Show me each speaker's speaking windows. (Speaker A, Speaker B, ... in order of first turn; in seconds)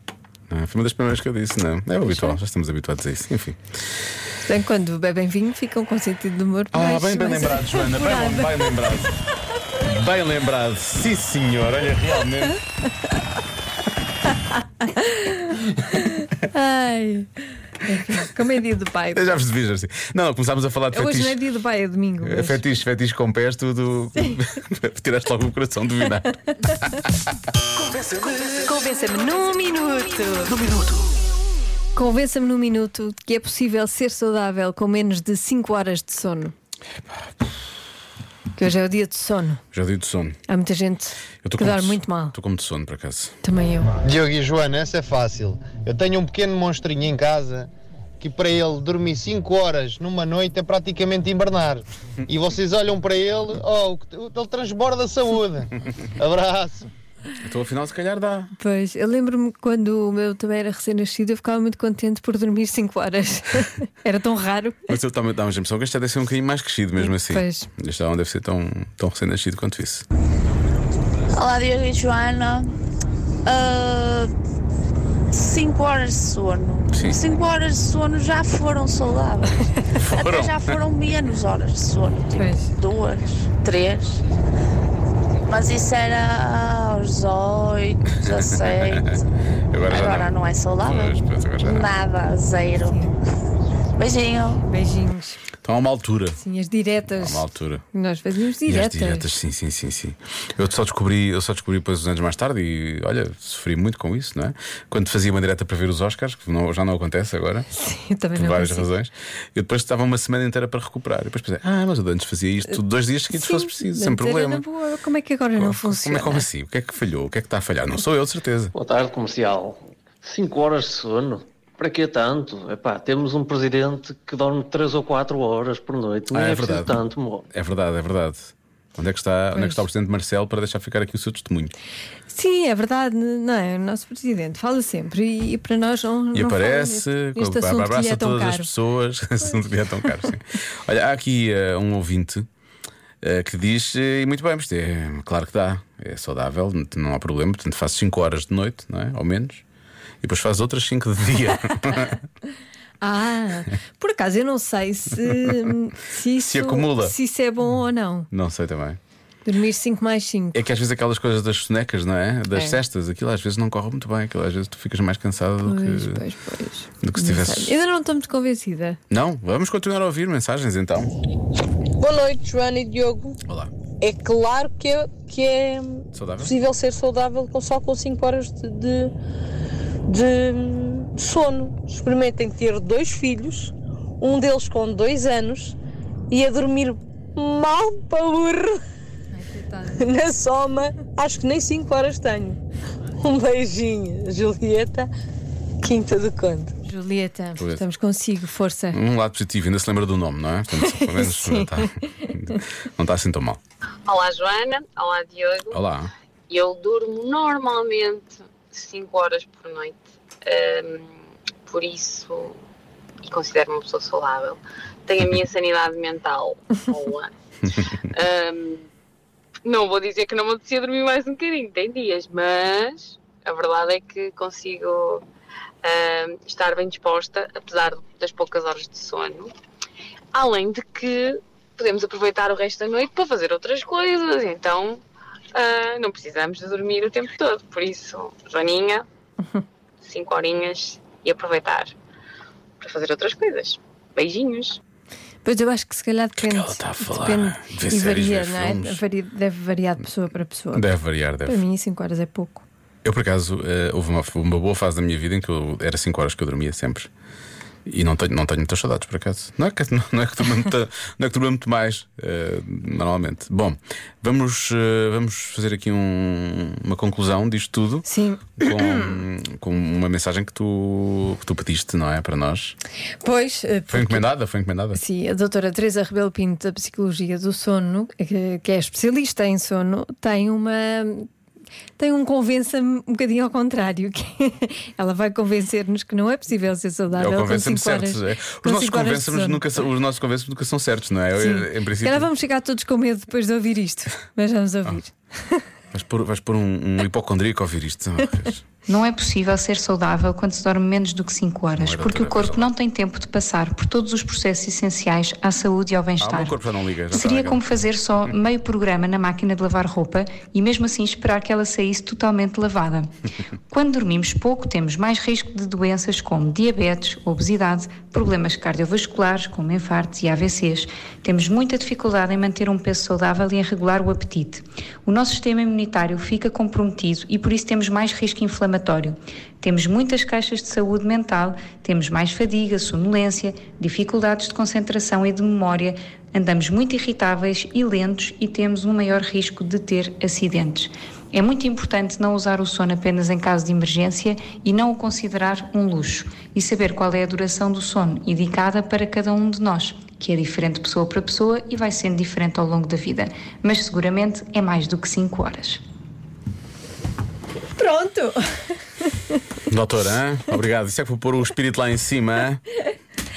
Speaker A: 0.5-3.6, 6.7-9.1, 9.8-12.6, 19.1-21.4, 22.2-27.1, 39.7-40.4, 41.4-43.3, 57.4-58.5, 64.9-70.0, 76.9-77.2, 80.0-80.6, 88.8-89.2, 89.7-91.9, 95.6-96.4, 97.1-97.8, 98.7-107.7, 108.3-114.6, 115.5-118.7, 126.3-126.9, 127.5-131.7, 136.3-142.4, 143.2-149.6, 150.2-152.2, 156.4-157.2, 158.3-159.0, 160.5-166.2, 167.0-167.8, 169.1-171.1, 173.4-173.7, 176.1-176.6, 197.6-197.9, 198.9-203.6, 205.7-206.1, 246.4-249.0, 250.7-251.6, 253.0-257.1, 257.9-268.1, 268.6-272.8, 273.9-275.0, 287.1-292.3, 295.9-298.6, 301.7-302.7, 306.2-307.6, 359.7-362.6
Speaker B: 2.0-2.4, 4.4-8.7, 15.1-15.4, 16.4-17.3, 17.8-19.4, 20.9-22.6, 28.6-30.6, 31.9-36.5, 38.5-39.6, 40.5-42.3, 43.4-43.9, 58.6-64.8, 67.0-67.7, 82.3-82.7, 92.9-93.1, 94.6-95.4, 96.4-99.3, 107.7-108.9, 113.3-116.5, 129.5-129.8, 132.3-138.7, 153.0-158.3, 159.4-160.6, 165.6-169.0, 189.3-190.1, 196.8-199.0, 200.8-202.3, 245.4-250.9, 251.4-252.6, 268.0-269.2, 273.2-274.3, 274.9-281.3, 282.0-289.8, 291.4-295.6, 357.8-358.4
Speaker C: 44.0-47.7, 48.2-56.9
Speaker D: 71.3-72.7, 73.4-74.3, 75.3-79.6, 80.1-84.2, 85.5-89.1, 89.9-93.0, 93.9-94.6
Speaker E: 118.8-127.4
Speaker F: 172.0-173.3, 174.0-175.9, 176.5-179.1, 180.1-183.7, 184.2-185.7, 186.3-188.6, 190.1-192.6, 193.2-195.1, 195.9-196.7
Speaker G: 204.1-205.8, 206.5-211.1, 211.7-212.6, 213.2-217.3, 218.1-218.8, 219.6-225.2, 225.8-229.5, 230.3-235.0, 235.5-239.1, 240.0-241.9, 242.8-244.8
Speaker H: 298.9-306.6, 307.1-313.1, 313.7-355.8